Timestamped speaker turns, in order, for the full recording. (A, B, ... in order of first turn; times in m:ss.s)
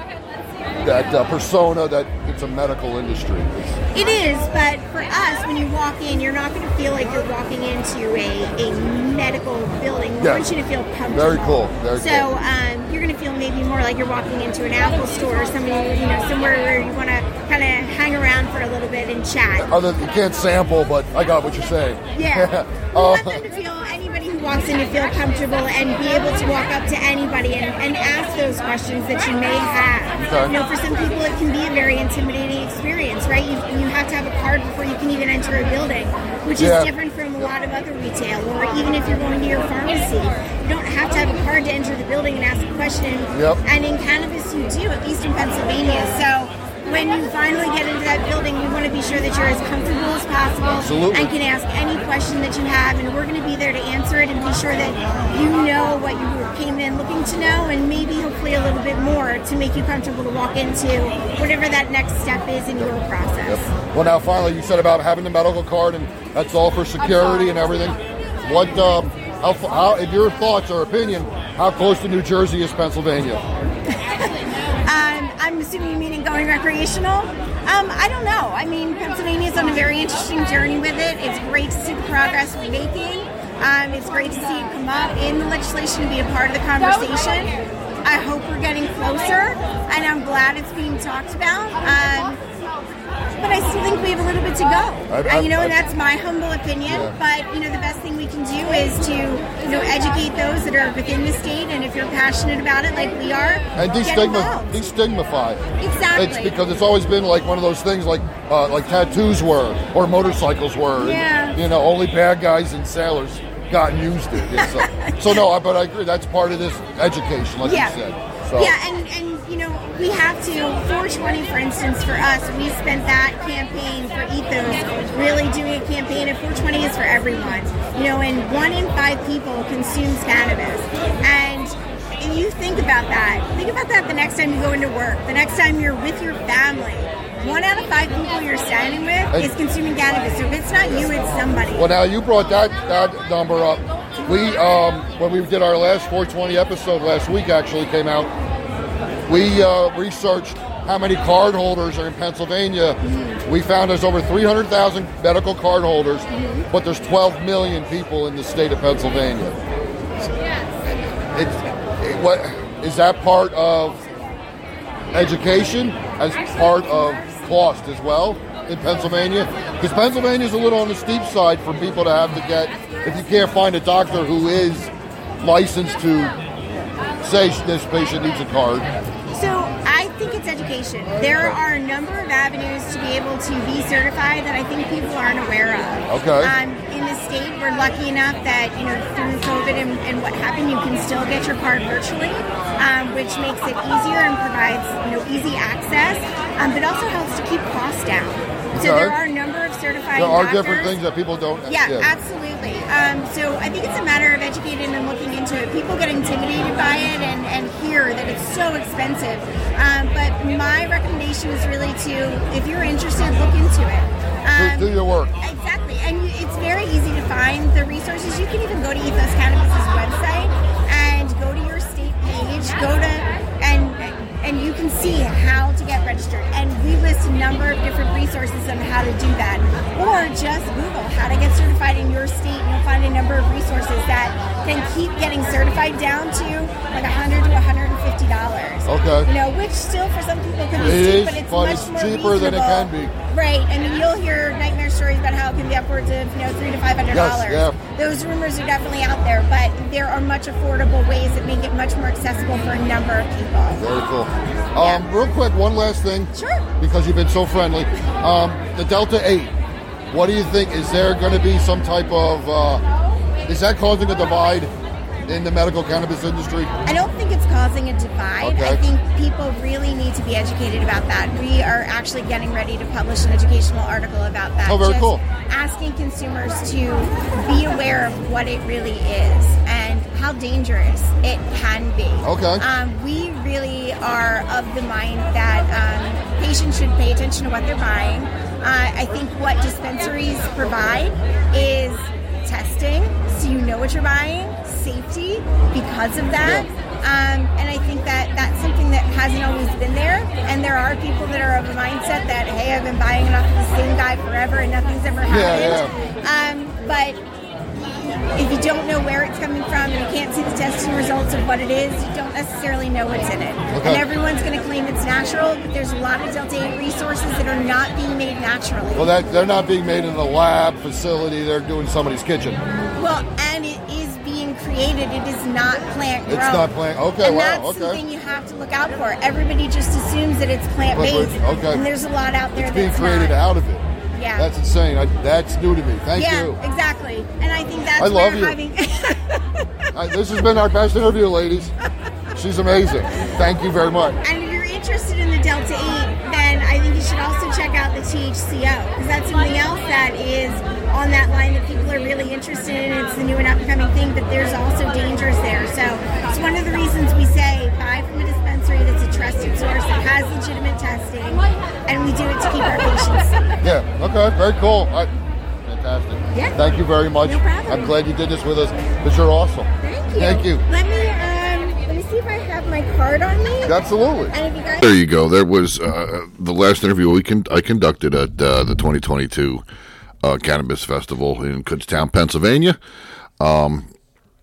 0:00.8-0:03.8 A
0:03.9-0:19.7 B
0:10.2-0:10.5 A
0:11.1-0:12.3 A
0:19.6-0:23.4 A
0:22.1-1:03.7 B
0:30.2-0:30.5 A
0:36.6-0:36.9 A
0:43.3-0:43.6 A
0:50.7-0:51.3 A
1:03.5-1:13.4 A
1:13.9-1:14.3 B
1:14.8-1:32.4 B
1:33.4-1:44.8 B
1:35.1-1:35.9 A
1:36.9-1:37.2 A
1:43.8-1:58.7 A
1:45.8-1:46.6 B
1:51.0-1:51.6 B
1:54.5-1:55.4 B
1:57.6-1:58.0 B
1:58.5-2:21.9 B
2:21.8-2:28.3 A
2:29.3-2:39.6 A
2:33.0-2:33.4 B
2:36.3-2:36.7 B
2:40.8-2:44.0 A
2:45.1-2:56.4 A
2:57.2-2:58.9 A
2:59.3-3:21.0 B
3:01.2-3:01.6 A
3:06.1-3:06.5 A
3:18.7-3:19.2 A
3:20.2-3:22.1 A
3:21.7-4:13.8 B
3:34.6-3:35.3 A
3:58.9-3:59.3 A
4:00.8-4:03.1 A
4:07.1-4:07.8 A
4:13.8-4:19.5 A
4:14.8-4:15.1 B
4:16.3-4:16.7 B
4:20.1-4:22.8 A
4:23.5-4:24.7 A
4:25.3-4:26.7 A
4:26.8-5:07.2 B
4:28.4-4:28.8 A
4:34.6-4:35.2 A
4:42.2-4:42.6 A
4:56.4-4:56.7 A
5:05.3-5:05.9 A
5:07.7-5:19.1 B
5:13.7-5:14.0 A
5:19.0-5:22.6 A
5:23.0-5:33.4 B
5:26.3-5:28.0 A
5:30.9-5:31.8 A
5:32.6-5:33.8 A
5:34.1-5:34.5 B
5:34.4-5:36.6 A
5:36.1-5:39.4 B
5:38.0-5:38.6 A
5:39.9-5:41.7 A
5:42.3-5:44.2 A
5:44.2-6:03.6 B
6:03.6-6:05.1 A
6:05.6-6:10.6 A
6:06.3-6:06.6 B
6:07.2-6:08.0 B
6:09.8-6:13.8 B
6:13.6-6:14.4 A
6:14.3-6:14.9 B
6:14.8-6:19.6 C
6:20.2-6:22.8 C
6:23.4-6:23.9 C